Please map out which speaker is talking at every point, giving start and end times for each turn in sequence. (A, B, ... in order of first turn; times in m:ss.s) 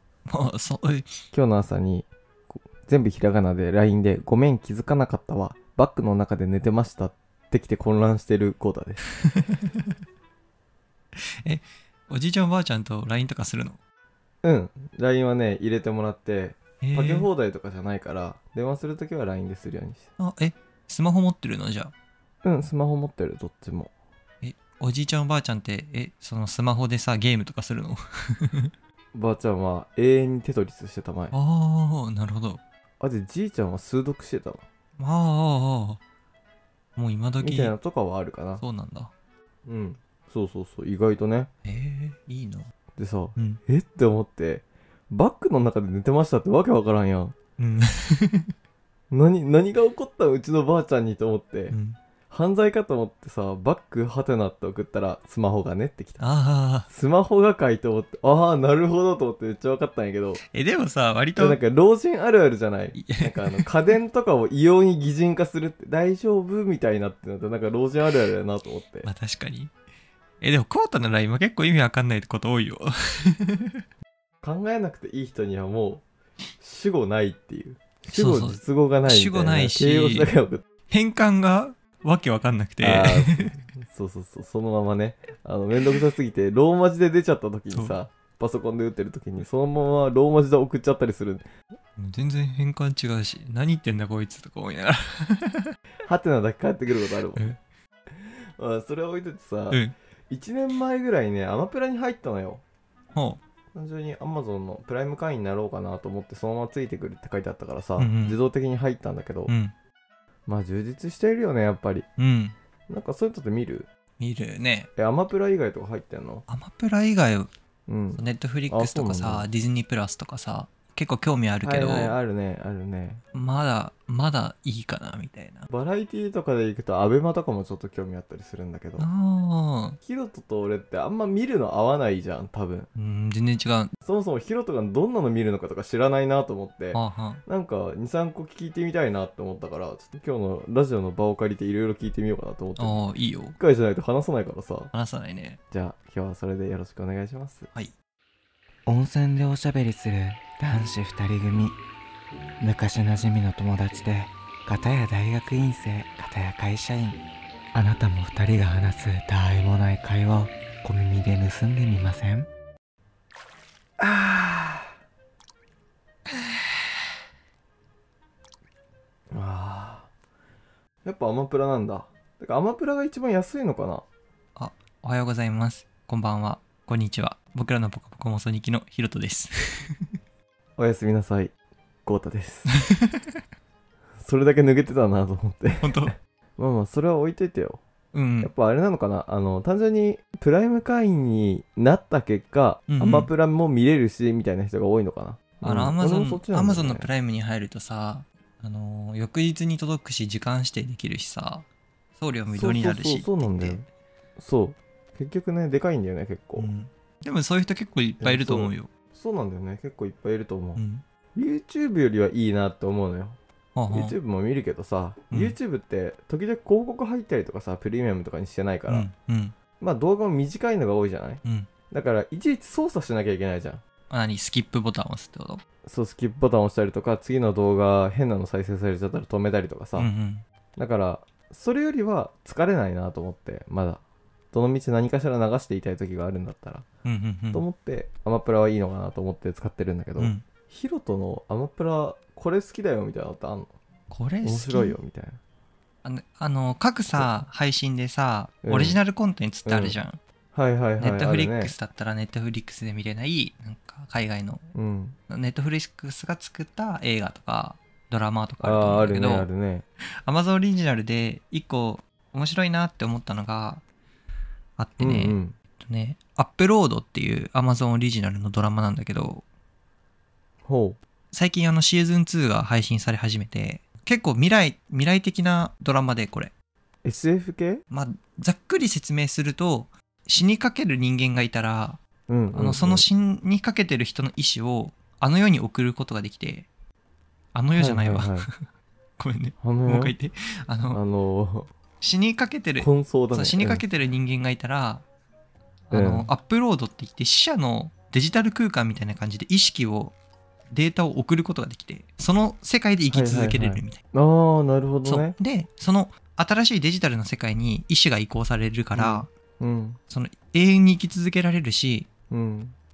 0:00.3-0:01.1 A
0:01.3-0:02.1 B
0:02.8-0:09.0 B
0:09.3-0:09.8 A
0:11.2-0:13.8 A
0:14.4-0:20.1 B
0:16.8-0:17.3 A
0:20.2-0:21.9 A
0:22.4-0:23.9 B
0:24.4-0:28.7 A
0:29.2-0:31.3 B
0:31.3-0:32.6 A
0:33.0-0:34.6 B
0:35.0-0:36.0 A
0:37.0-0:37.7 A
0:37.4-0:38.6 B
0:38.6-0:39.1 A
0:39.7-0:41.5 B
0:41.6-0:42.7 A
0:43.0-0:47.4 B
0:47.6-0:48.5 A
0:49.1-0:51.8 B
0:51.7-0:52.0 A
0:52.3-0:56.2 B
0:56.2-0:56.9 A
0:56.9-1:00.4 B
1:00.5-1:01.6 A
1:01.4-1:09.1 B
1:03.0-1:03.7 A
1:09.0-1:09.7 A
1:10.4-1:13.7 A
1:14.4-1:16.0 B
1:16.6-1:20.6 B
1:18.1-1:20.3 A
1:20.9-1:23.5 A
1:22.8-1:31.5 B
1:27.7-1:28.0 A
1:32.0-1:35.7 A
1:36.0-1:37.5 B
1:38.6-1:42.6 B
1:43.1-1:43.4 A
1:43.7-1:49.5 B
1:48.0-1:48.4 A
1:49.5-1:49.7 A
1:50.5-1:52.0 B
1:52.2-1:52.5 A
1:52.9-1:53.9 B
1:54.2-1:54.9 A
1:55.0-1:56.4 B
1:56.5-1:57.5 A
1:57.9-1:59.5 B
1:58.2-2:02.1 A
2:01.6-2:03.2 B
2:03.3-2:05.7 A
2:05.7-2:09.1 B
2:09.0-2:10.0 A
2:10.0-2:12.9 B
2:13.0-2:13.9 A
2:14.0-2:23.0 B
2:16.9-2:17.4 A
2:22.8-2:23.6 A
2:23.6-2:24.9 B
2:24.9-2:25.6 A
2:25.7-2:27.7 B
2:28.9-2:31.8 C
2:32.6-2:37.2 C
2:37.7-2:42.5 C
2:44.0-2:44.9 B
2:49.3-2:50.1 B
2:51.0-2:54.0 B
2:54.6-3:00.0 A
3:00.8-3:01.5 B
3:02.1-3:02.7 B
3:02.9-3:03.3 A
3:04.2-3:07.8 B
3:05.8-3:06.1 A
3:08.1-3:08.5 A
3:08.4-3:17.1 B
3:12.9-3:13.3 A
3:15.6-3:21.7 A
3:22.2-3:23.8 A
3:22.5-3:23.9 B
3:24.4-3:26.7 B
3:26.6-3:28.9 A
3:28.2-3:30.8 B
3:30.8-3:31.0 A
3:31.3-3:33.4 B
3:33.8-3:34.2 A
3:33.9-3:39.1 B
3:38.9-3:39.6 A
3:39.8-3:43.8 B
3:41.4-3:41.7 A
3:44.1-3:45.6 A
3:45.8-3:50.1 B
3:50.0-3:50.4 A
3:50.8-3:54.0 B
3:54.5-3:56.9 B
3:57.0-3:57.6 A
3:57.5-4:03.7 B
4:00.2-4:00.4 A
4:04.1-4:05.0 A
4:04.4-4:05.4 B
4:06.0-4:10.2 A
4:08.6-4:09.0 B
4:09.7-4:10.0 B
4:10.5-4:11.7 B
4:11.0-4:14.7 A
4:14.8-4:15.2 B
4:15.3-4:19.5 A
4:18.6-4:19.8 B
4:20.2-4:23.8 A
4:24.8-4:29.4 A
4:25.0-4:25.5 B
4:30.6-4:31.0 B
4:31.3-4:36.5 A
4:37.0-4:37.8 B
4:37.9-4:42.0 A
4:42.3-4:43.0 B
4:42.5-4:46.7 A
4:47.5-4:48.5 A
4:47.8-4:48.5 B
4:49.2-4:51.0 A
4:49.6-4:50.1 B
4:50.9-4:51.7 B
4:52.0-4:55.0 A
4:52.8-4:53.8 B
4:55.9-5:00.2 A
4:55.9-4:56.3 B
5:00.7-5:04.0 A
5:03.1-5:05.3 B
5:05.1-5:09.3 A
5:08.9-5:10.0 B
5:10.1-5:12.1 A
5:12.3-5:12.7 B